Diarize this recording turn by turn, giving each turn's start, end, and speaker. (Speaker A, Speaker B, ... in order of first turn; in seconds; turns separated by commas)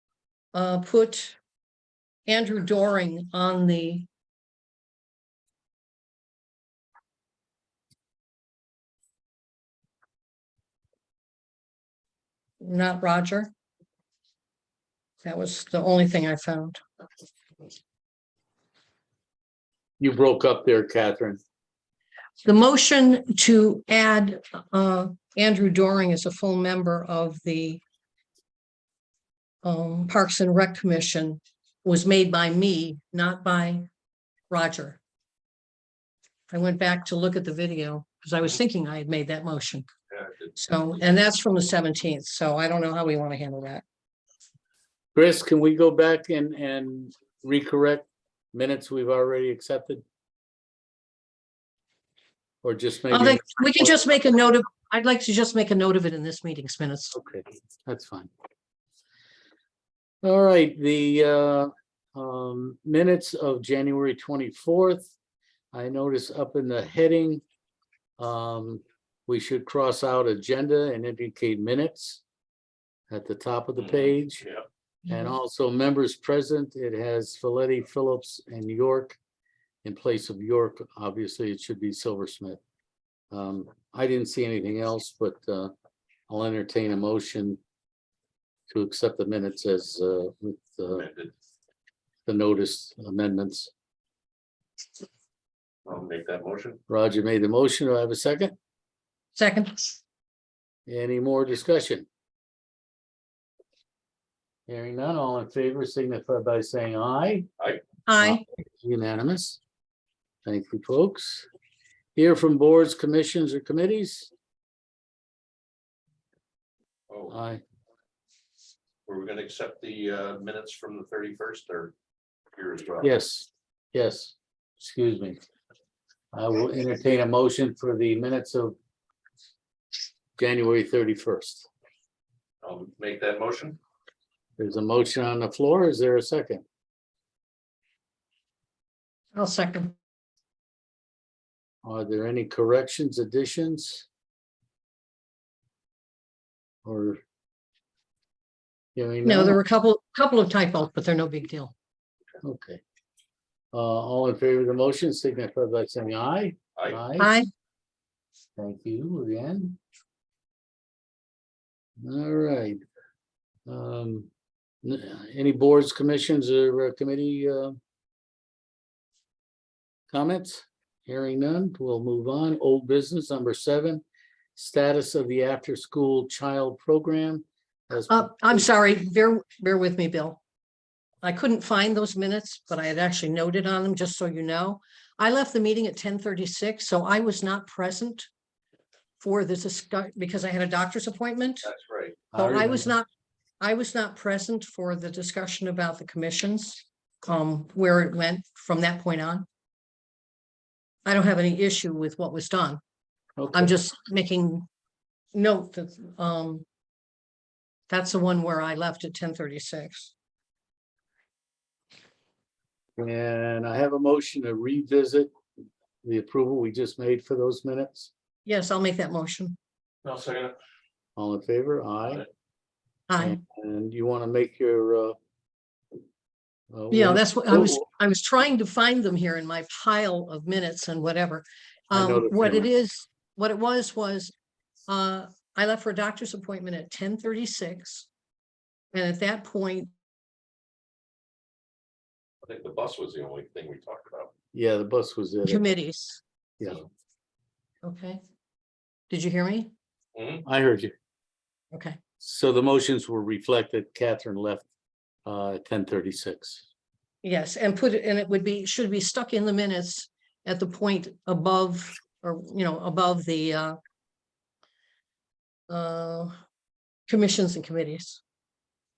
Speaker A: 0.5-1.4, Speaker A: 2.3-4.0, Speaker A: 12.6-13.5, Speaker A: 15.2-16.8, Speaker B: 20.0-21.4, Speaker A: 22.4-27.8, Speaker A: 29.6-33.9, Speaker A: 34.5-35.0, Speaker A: 36.5-39.9, Speaker C: 40.1-40.5, Speaker A: 40.5-43.8, Speaker B: 45.1-50.0, Speaker B: 52.6-53.5, Speaker A: 53.1-57.1, Speaker B: 57.1-58.3, Speaker B: 60.2-65.1, Speaker B: 65.7-67.4, Speaker B: 68.2-72.2, Speaker B: 73.1-74.4, Speaker C: 73.8-74.6, Speaker B: 75.1-79.2, Speaker B: 79.8-82.6, Speaker B: 83.3-85.7, Speaker B: 86.3-87.6, Speaker B: 88.7-91.0, Speaker C: 90.9-91.3, Speaker B: 92.2-93.7, Speaker C: 95.8-96.8, Speaker B: 96.9-98.5, Speaker A: 99.3-100.0, Speaker B: 100.9-102.0, Speaker B: 104.7-107.5, Speaker A: 108.1-108.4, Speaker B: 108.2-109.6, Speaker B: 110.4-111.5, Speaker B: 112.2-114.3, Speaker B: 117.3-117.6, Speaker C: 119.0-121.9, Speaker C: 122.5-123.1, Speaker B: 123.0-125.4, Speaker B: 126.3-128.8, Speaker B: 130.4-131.7, Speaker C: 132.6-133.8, Speaker B: 134.6-136.6, Speaker A: 139.3-139.9, Speaker B: 141.8-144.1, Speaker B: 146.8-147.2, Speaker B: 148.9-149.6, Speaker A: 149.2-151.7, Speaker B: 152.4-152.8, Speaker B: 153.7-157.3, Speaker A: 157.2-157.5, Speaker B: 158.6-159.8, Speaker B: 162.0-162.8, Speaker B: 163.7-164.3, Speaker B: 164.8-167.8, Speaker B: 170.1-174.0, Speaker B: 174.6-178.7, Speaker A: 178.1-180.4, Speaker A: 181.2-188.3, Speaker A: 189.2-191.7, Speaker C: 191.6-192.2, Speaker B: 192.3-192.9, Speaker A: 192.3-193.1, Speaker A: 193.6-199.4, Speaker A: 201.1-202.8, Speaker B: 203.4-203.8, Speaker A: 203.5-204.7, Speaker A: 205.3-206.7, Speaker A: 207.9-210.1, Speaker B: 213.0-215.3, Speaker B: 216.0-218.1, Speaker A: 218.4-219.6, Speaker C: 220.0-220.6, Speaker B: 221.2-222.2, Speaker A: 223.1-223.4, Speaker B: 223.2-225.2, Speaker B: 226.7-227.8, Speaker A: 226.9-234.3, Speaker B: 231.9-232.7, Speaker A: 234.9-238.1, Speaker A: 238.9-239.9, Speaker C: 242.4-244.3, Speaker B: 244.5-245.7, Speaker A: 245.4-246.2, Speaker A: 247.8-248.2, Speaker A: 249.1-249.7, Speaker C: 250.1-250.4, Speaker B: 250.4-250.9, Speaker A: 251.7-252.0, Speaker B: 252.2-254.7, Speaker B: 255.2-256.6, Speaker A: 257.2-263.8, Speaker A: 265.7-266.4, Speaker A: 267.1-268.2